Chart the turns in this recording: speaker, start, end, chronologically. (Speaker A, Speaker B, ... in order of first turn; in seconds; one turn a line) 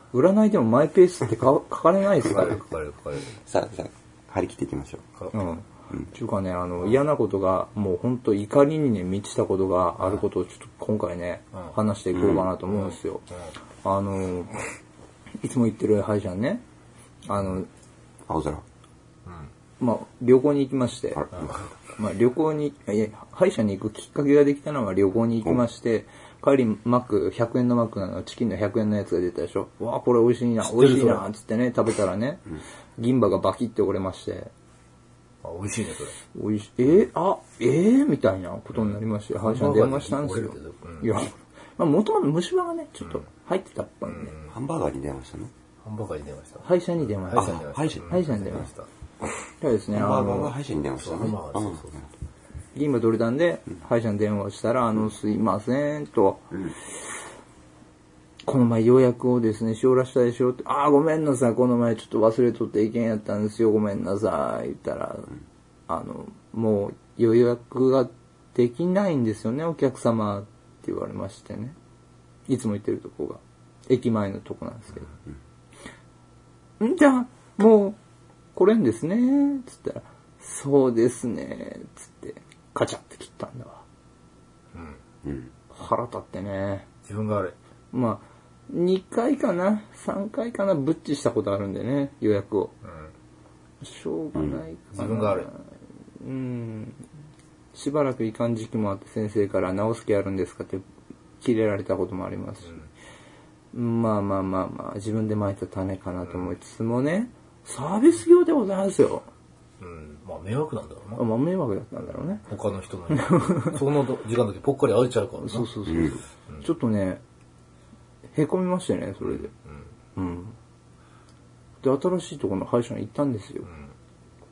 Speaker A: 0.1-2.6
Speaker B: 2.2-3.4
Speaker C: 3.4-5.0
Speaker A: 5.3-13.3
Speaker B: 10.0-10.2
Speaker C: 12.1-12.5
Speaker B: 12.6-13.5
Speaker A: 13.8-14.6
Speaker A: 15.4-16.6
Speaker A: 17.3-17.7
Speaker C: 18.3-18.6
Speaker B: 19.3-19.5
Speaker A: 19.8-21.3
Speaker C: 21.2-21.5
Speaker B: 21.3-21.7
Speaker A: 21.9-34.5
Speaker B: 30.6-31.3
Speaker B: 35.4-36.2
Speaker A: 36.3-44.3
Speaker B: 38.7-41.1
Speaker B: 44.1-44.6
Speaker C: 44.4-45.5
Speaker B: 45.8-48.9
Speaker A: 46.6-48.7
Speaker C: 47.3-48.2
Speaker A: 49.6-50.5
Speaker C: 49.9-51.9
Speaker B: 51.0-52.1
Speaker A: 52.8-56.5
Speaker A: 58.5-65.3
Speaker A: 65.9-71.8
Speaker A: 72.5-75.1
Speaker A: 76.8-78.0
Speaker A: 78.5-83.8
Speaker B: 84.7-85.0
Speaker C: 85.2-85.5
Speaker A: 85.7-86.9
Speaker B: 87.1-87.5
Speaker A: 87.9-92.8
Speaker B: 92.8-93.1
Speaker A: 93.8-95.6
Speaker C: 94.3-94.6
Speaker B: 94.9-95.5
Speaker A: 96.2-97.0
Speaker A: 97.7-100.8
Speaker A: 101.4-102.8
Speaker A: 103.7-109.3
Speaker B: 106.3-106.5
Speaker B: 109.8-111.2
Speaker A: 111.2-112.5
Speaker B: 112.4-115.8
Speaker A: 113.3-113.8
Speaker A: 115.4-117.2
Speaker C: 115.9-116.2
Speaker A: 118.3-119.5
Speaker B: 119.2-119.9
Speaker A: 120.2-120.6
Speaker A: 121.8-123.7